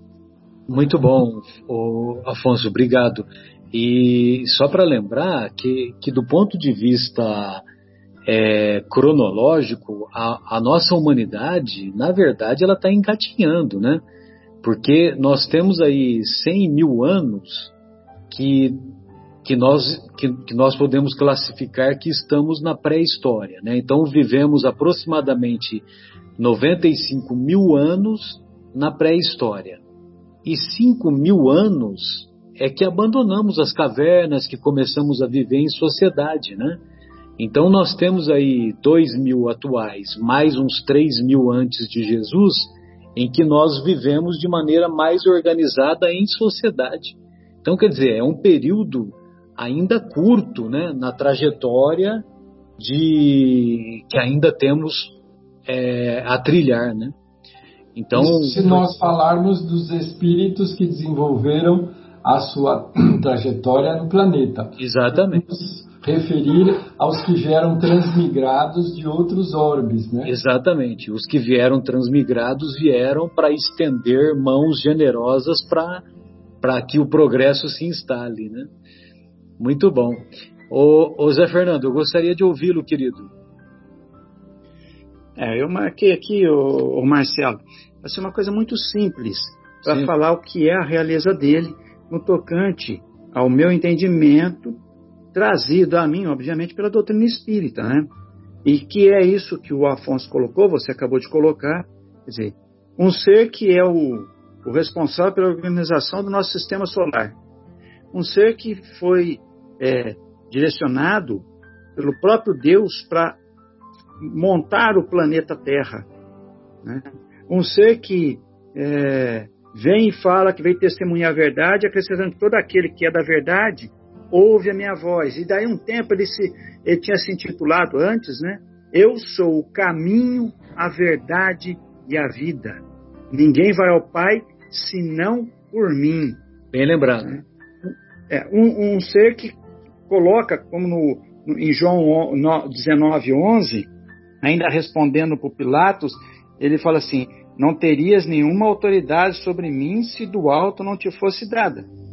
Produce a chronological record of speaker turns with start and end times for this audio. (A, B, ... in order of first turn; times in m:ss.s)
0:00.7-0:07.6 A
0:08.3-0:14.0 A
0:14.6-0:17.7 A
0:18.3-0:25.9 A
0:26.4-0:29.8 A
0:30.4-0:36.8 A
0:37.4-0:52.2 A
0:52.8-0:57.2 A
0:58.0-0:58.9 A
0:58.1-1:10.4 B
1:04.8-1:05.4 A
1:10.2-1:16.1 A
1:16.6-1:18.7 A
1:19.6-1:23.3 A
1:25.4-1:34.8 C
1:29.8-1:30.1 A
1:35.3-1:38.1 C
1:38.6-1:47.4 C
1:48.1-1:53.4 C
1:54.2-1:56.1 C
1:56.8-2:16.4 C
2:16.7-2:17.4 A
2:17.3-2:23.9 C
2:24.4-2:31.9 C